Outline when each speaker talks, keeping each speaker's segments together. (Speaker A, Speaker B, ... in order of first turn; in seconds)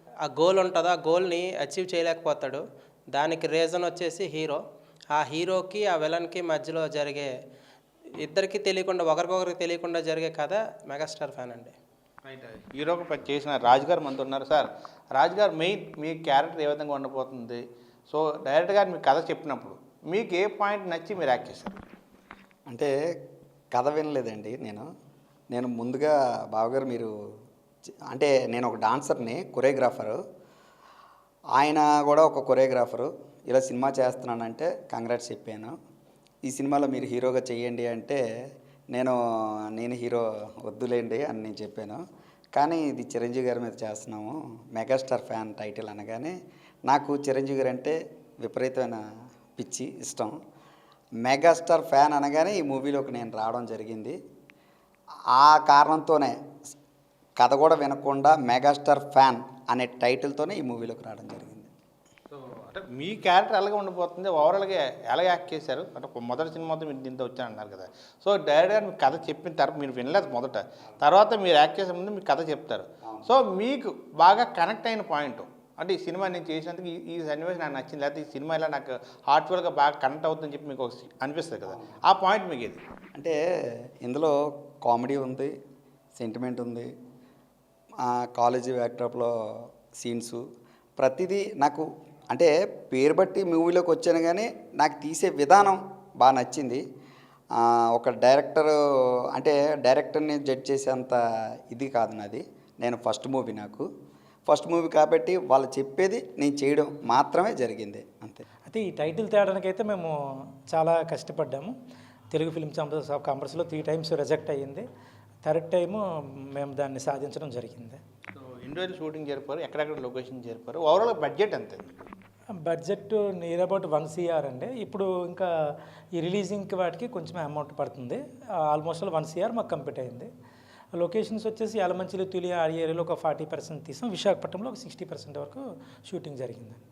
Speaker A: 0.2-4.6, 5.1-7.3, 8.2-11.7
Speaker B: 12.2-21.8, 62.3-82.8, 118.3-122.1
Speaker C: 23.7-24.9, 25.5-27.1, 28.1-30.2, 31.6-35.7, 36.5-38.2, 38.9-39.2, 39.7-42.0, 42.5-46.3, 46.9-49.0, 49.6-50.4, 51.2-54.2, 55.3-56.3, 57.4-61.7, 84.0-85.5, 86.2-86.9, 88.0-89.3, 90.0-90.4, 91.0-96.8, 97.6-98.7, 99.3-101.2, 101.7-103.8, 104.5-108.4
Speaker D: 108.7-110.1, 110.7-111.7, 112.3-114.8, 115.4-116.0, 116.5-118.0, 122.6-125.5, 126.1-130.3, 130.9-136.8